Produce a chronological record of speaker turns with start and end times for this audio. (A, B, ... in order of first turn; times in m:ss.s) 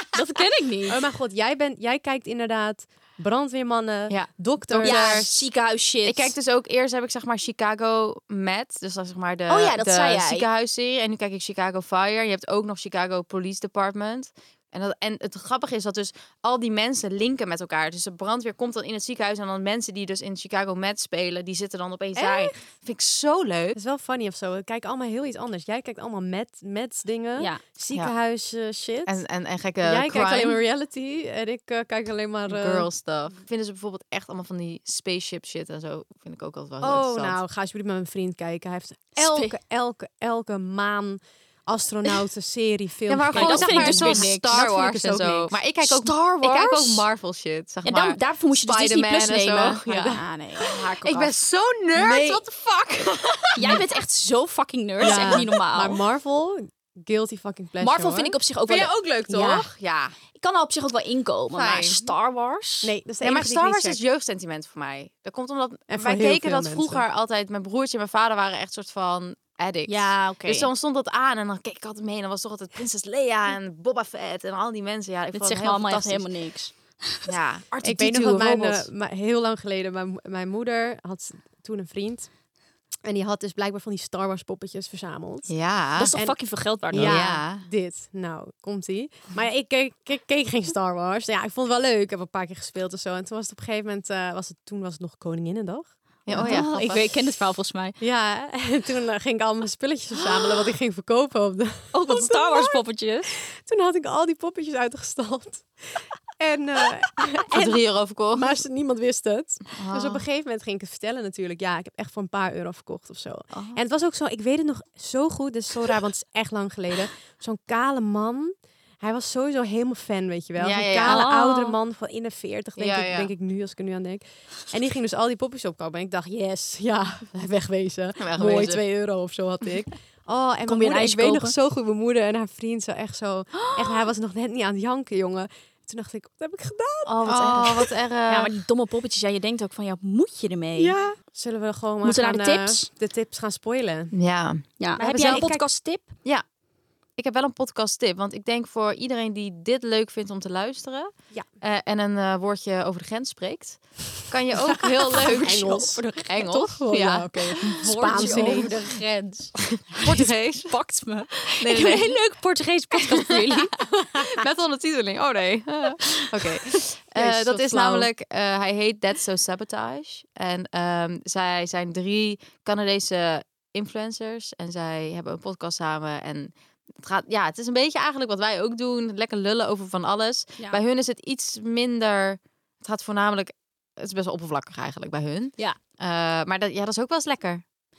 0:00.1-0:01.0 A
0:00.9-0:05.3 B
0:04.1-0:05.4 C
0:04.8-0:06.3 A
0:06.0-0:23.8 C
0:09.5-0:10.5 A
0:22.2-0:22.6 B
0:23.7-0:29.2 B
0:27.4-0:27.6 A
0:29.1-0:30.6 C
0:29.8-0:32.9 B
0:32.5-0:37.4 C
0:36.8-0:45.6 B
0:39.2-0:39.6 A
0:43.1-0:53.8 C
0:43.3-0:44.5 A
0:45.8-0:47.1 A
0:47.8-0:51.4 A
0:49.9-0:50.2 B
0:52.0-0:52.4 B
0:53.6-0:56.0 A
0:55.0-0:55.5 C
0:55.0-0:58.4 B
0:57.8-0:58.9 A
0:58.7-1:00.2 C
0:59.3-0:59.7 B
1:00.4-1:02.9 A
1:01.5-1:02.0 C
1:02.8-1:04.0 B
1:03.2-1:16.3 C
1:05.9-1:07.0 B
1:09.9-1:10.7 A
1:15.3-1:17.3 A
1:17.3-1:18.9 C
1:17.8-1:22.3 B
1:23.0-1:25.6 B
1:25.5-1:26.1 C
1:26.0-1:27.3 A
1:26.1-1:36.6 B
1:26.9-1:27.6 C
1:36.3-1:37.1 C
1:36.3-1:38.0 A
1:38.0-1:42.8 B
1:41.9-1:43.3 A
1:43.3-2:17.9 B
1:47.5-1:48.6 C
1:49.8-1:50.2 C
1:53.5-1:53.8 C
2:00.6-2:01.3 C
2:01.0-2:01.8 A
2:02.8-2:03.3 C
2:08.2-2:08.8 C
2:10.7-2:11.6 A
2:13.6-2:14.0 A
2:17.1-2:21.0 A
2:17.2-2:18.6 C
2:20.8-2:24.1 B
2:22.0-2:22.9 A
2:24.1-2:25.5 C
2:24.8-2:26.1 A
2:25.0-2:25.6 B
2:27.2-2:38.7 C
2:35.1-2:39.1 B
2:35.4-2:36.7 A
2:37.6-2:43.8 A
2:39.7-2:40.8 C
2:41.6-2:42.2 C
2:43.1-2:43.6 C
2:44.2-3:07.6 C
2:47.2-2:48.1 B